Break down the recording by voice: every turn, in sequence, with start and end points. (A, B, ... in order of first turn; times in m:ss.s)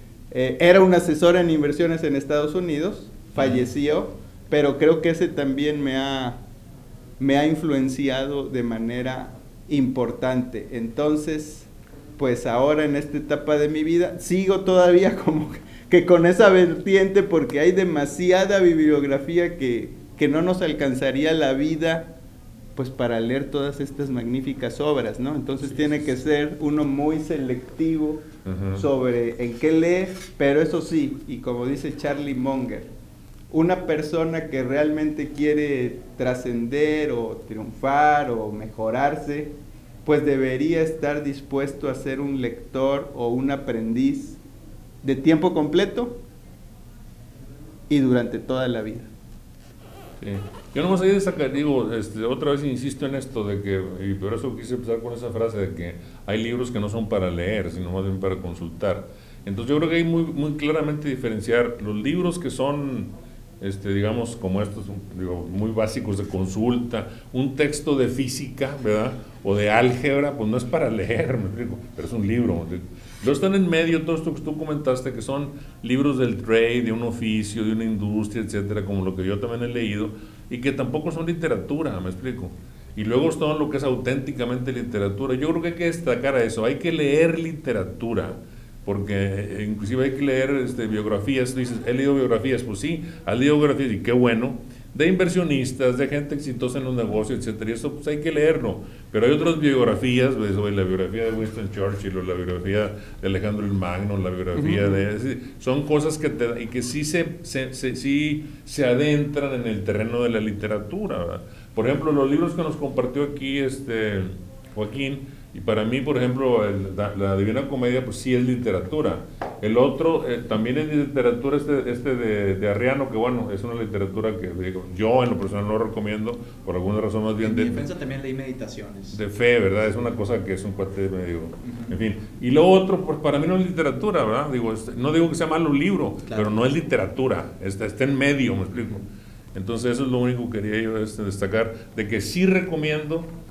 0:00.3-0:06.4 A
0:03.4-0:03.6 B
0:07.2-0:22.1 A
0:22.8-0:32.9 A
0:28.4-0:28.8 B
0:33.5-0:44.4 A
0:45.0-0:46.2 A
0:47.9-0:49.1 A
0:50.2-2:07.9 B
1:44.5-1:45.0 A
2:07.4-2:09.2 C
2:09.1-2:23.3 B
2:11.6-2:12.0 C
2:16.3-2:16.6 C